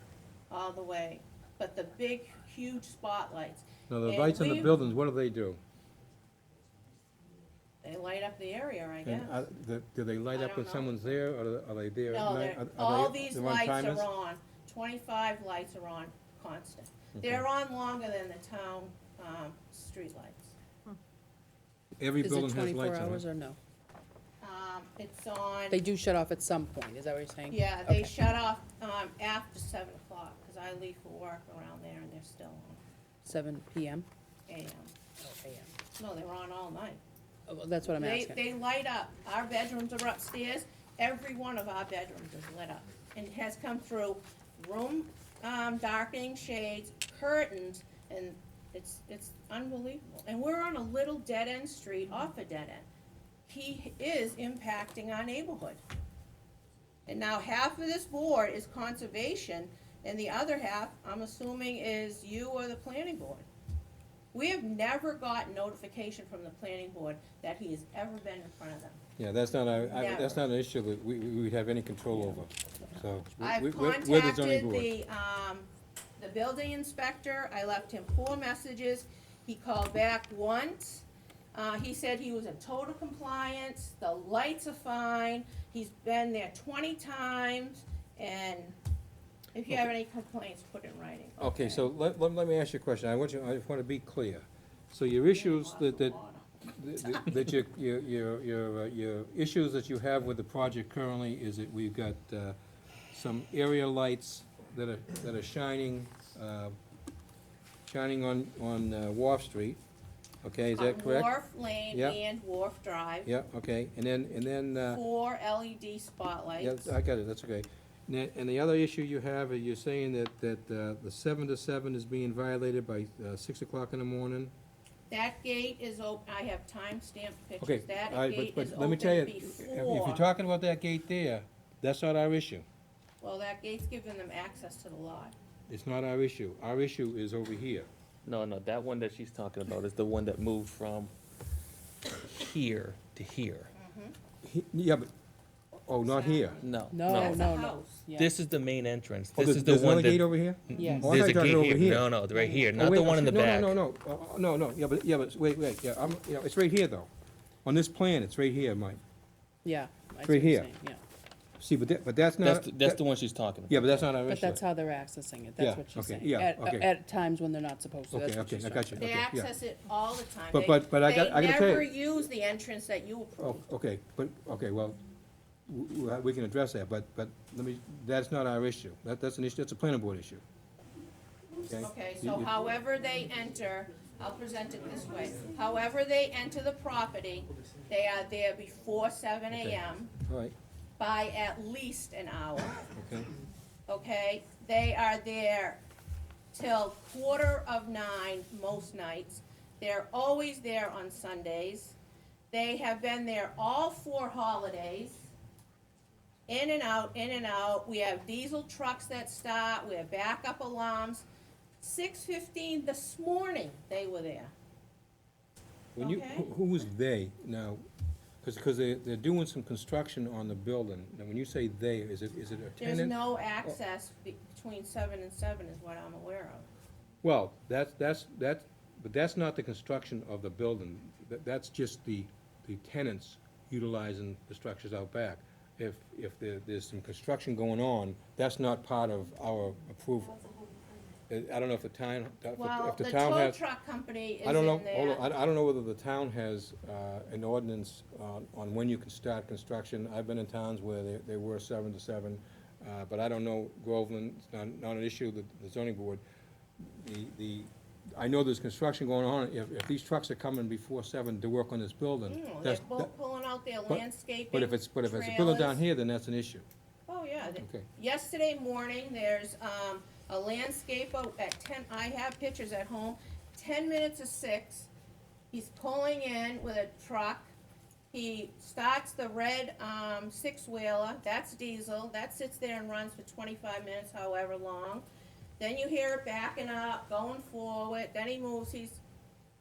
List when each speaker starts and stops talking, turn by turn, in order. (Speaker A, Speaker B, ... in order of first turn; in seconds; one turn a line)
Speaker A: 0.5-4.8
Speaker B: 3.9-5.6
Speaker A: 7.8-9.4
Speaker B: 9.0-14.1
Speaker A: 10.3-11.1
Speaker A: 12.1-20.6
Speaker B: 22.0-23.2
Speaker C: 22.2-23.6
Speaker A: 24.4-25.8
Speaker C: 25.7-28.1
Speaker A: 27.5-32.8
Speaker C: 33.2-34.1
Speaker A: 34.5-34.9
Speaker C: 35.2-35.7
Speaker A: 35.9-37.0
Speaker C: 37.5-38.4
Speaker A: 37.9-52.9
Speaker A: 53.5-55.8
Speaker A: 57.1-63.5
Speaker A: 64.3-69.0
Speaker B: 69.2-74.9
Speaker A: 69.9-70.4
Speaker A: 73.4-88.8
Speaker A: 89.5-91.9
Speaker B: 91.4-96.2
Speaker A: 95.3-96.4
Speaker B: 96.7-102.6
Speaker B: 103.1-106.7
Speaker B: 107.8-109.8
Speaker B: 110.4-111.3
Speaker A: 110.7-113.3
Speaker B: 111.9-112.2
Speaker B: 113.2-115.0
Speaker A: 114.9-116.9
Speaker B: 116.6-124.5
Speaker A: 125.1-130.2
Speaker B: 127.6-132.6
Speaker A: 133.2-135.3
Speaker B: 135.7-137.9
Speaker D: 138.2-141.1
Speaker D: 142.2-143.7
Speaker A: 143.7-144.1
Speaker B: 144.4-145.1
Speaker B: 145.8-146.6
Speaker A: 146.0-148.1
Speaker D: 146.6-147.5
Speaker C: 146.9-148.3
Speaker D: 148.1-153.8
Speaker B: 149.3-152.1
Speaker C: 150.8-151.2
Speaker B: 152.7-157.1
Speaker B: 157.6-159.0
Speaker C: 159.6-161.0
Speaker B: 160.2-160.7
Speaker B: 161.6-163.0
Speaker D: 162.4-164.0
Speaker B: 163.7-164.6
Speaker C: 164.2-169.0
Speaker B: 165.6-166.9
Speaker B: 168.1-169.5
Speaker A: 169.0-173.6
Speaker B: 170.5-171.9
Speaker B: 173.4-175.0
Speaker B: 175.7-180.4
Speaker B: 181.7-182.5
Speaker A: 181.8-190.1
Speaker B: 189.5-190.5
Speaker A: 191.0-192.8
Speaker B: 192.9-193.3
Speaker A: 193.9-195.8
Speaker A: 196.5-201.9
Speaker A: 202.5-205.2
Speaker A: 206.5-211.2
Speaker A: 211.8-214.5
Speaker B: 215.9-217.8
Speaker A: 216.0-216.5
Speaker B: 218.4-223.8
Speaker A: 222.8-226.7
Speaker B: 227.2-240.6
Speaker B: 241.3-243.6
Speaker A: 242.5-245.2
Speaker B: 244.4-256.2
Speaker B: 256.8-263.1
Speaker A: 262.3-265.8
Speaker B: 263.9-266.6
Speaker A: 267.1-274.9
Speaker B: 267.6-267.8
Speaker A: 275.5-277.5
Speaker A: 278.1-285.1
Speaker A: 285.6-289.0